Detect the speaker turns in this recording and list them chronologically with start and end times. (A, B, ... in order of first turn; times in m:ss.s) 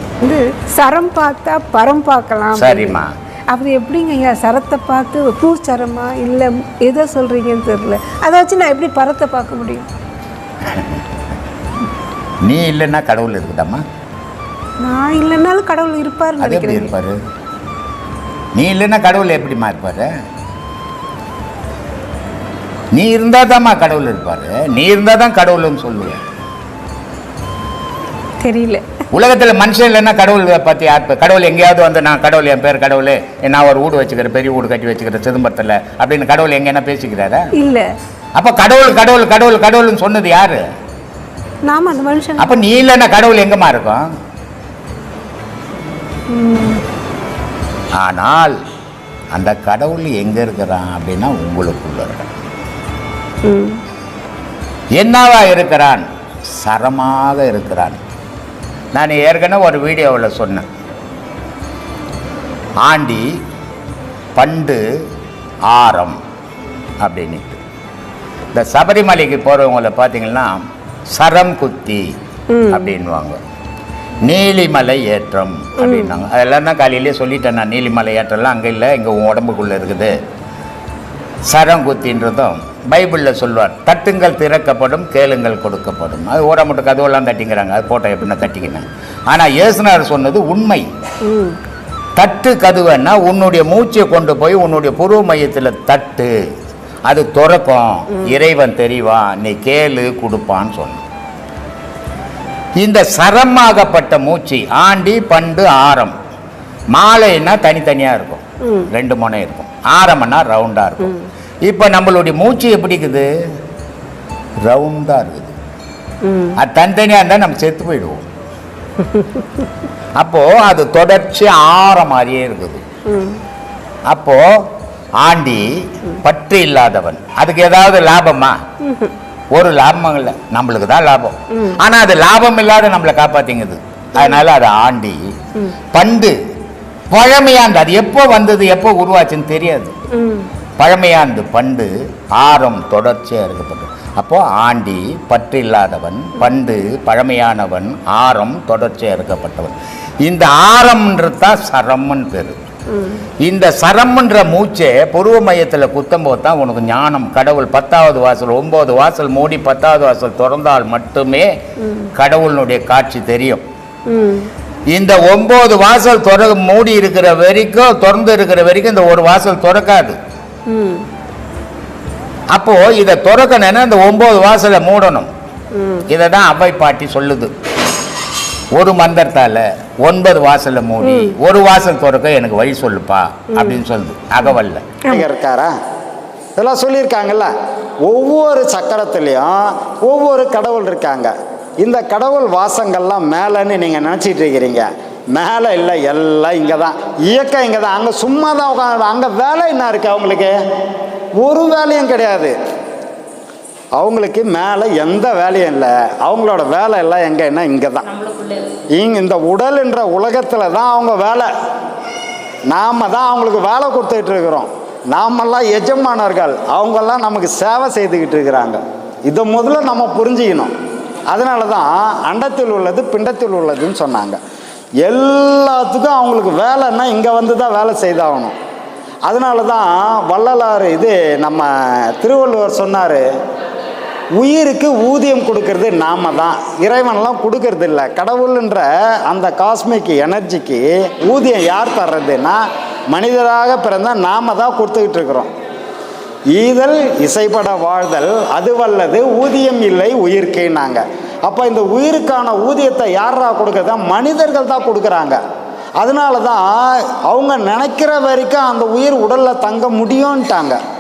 0:00.2-0:03.0 A
0:02.5-0:03.1 B
0:03.5-0:09.8 A
0:12.4-0:13.8 B
0:14.8-0:16.9 A
0:16.4-0:17.2 B
0:18.6-0:20.1 B
0:22.9-0:26.2 B
0:28.4-0:28.8 A
0:29.1-0:37.5 B
0:37.6-0:37.8 A
0:38.3-0:40.6 B
0:41.6-0:42.6 A
0:42.4-0:44.0 B
0:46.3-0:46.8 A
0:48.0-0:48.5 B
0:49.3-0:52.3 B
0:53.4-0:53.8 A
0:55.0-0:56.0 B
0:56.6-0:58.0 B
0:58.9-1:00.6 B
1:02.8-1:03.3 B
1:04.3-1:04.8 B
1:05.7-1:06.2 B
1:07.0-1:07.6 B
1:08.5-1:12.1 B
1:12.5-1:12.9 A
1:12.7-1:13.4 B
1:14.2-1:20.2 B
1:15.8-1:16.1 A
1:21.5-1:30.9 B
1:31.2-1:31.6 A
1:32.2-1:36.4 B
1:37.0-1:41.0 B
1:42.8-1:46.2 B
1:46.9-1:53.3 B
1:54.6-1:55.5 B
1:56.2-1:56.6 A
1:56.6-1:58.2 B
2:00.2-2:02.8 B
2:03.1-2:03.4 A
2:04.1-2:04.4 B
2:05.2-2:08.6 B
2:08.8-2:09.1 A
2:09.5-2:15.2 B
2:14.1-2:14.4 A
2:15.9-2:16.4 B
2:17.1-2:19.9 B
2:20.1-2:20.5 A
2:20.8-2:32.6 B
2:33.4-2:41.5 B
2:42.2-2:43.6 B
2:44.1-2:44.5 A
2:44.9-2:50.2 B
2:50.7-2:51.0 A
2:52.5-2:55.3 B
2:55.8-2:56.0 A
2:56.1-2:57.5 B
2:58.7-3:04.9 B
3:01.0-3:01.4 A
3:03.5-3:03.8 A
3:05.1-3:05.7 C
3:06.6-3:07.5 C
3:08.0-3:20.5 C
3:21.4-3:22.6 C
3:23.9-3:28.1 C
3:29.0-3:31.5 C
3:32.7-3:40.7 C
3:41.3-3:44.4 C
3:45.0-3:48.6 C
3:49.2-3:53.2 C
3:54.4-4:05.5 C
4:06.5-4:15.4 C
4:16.0-4:20.8 C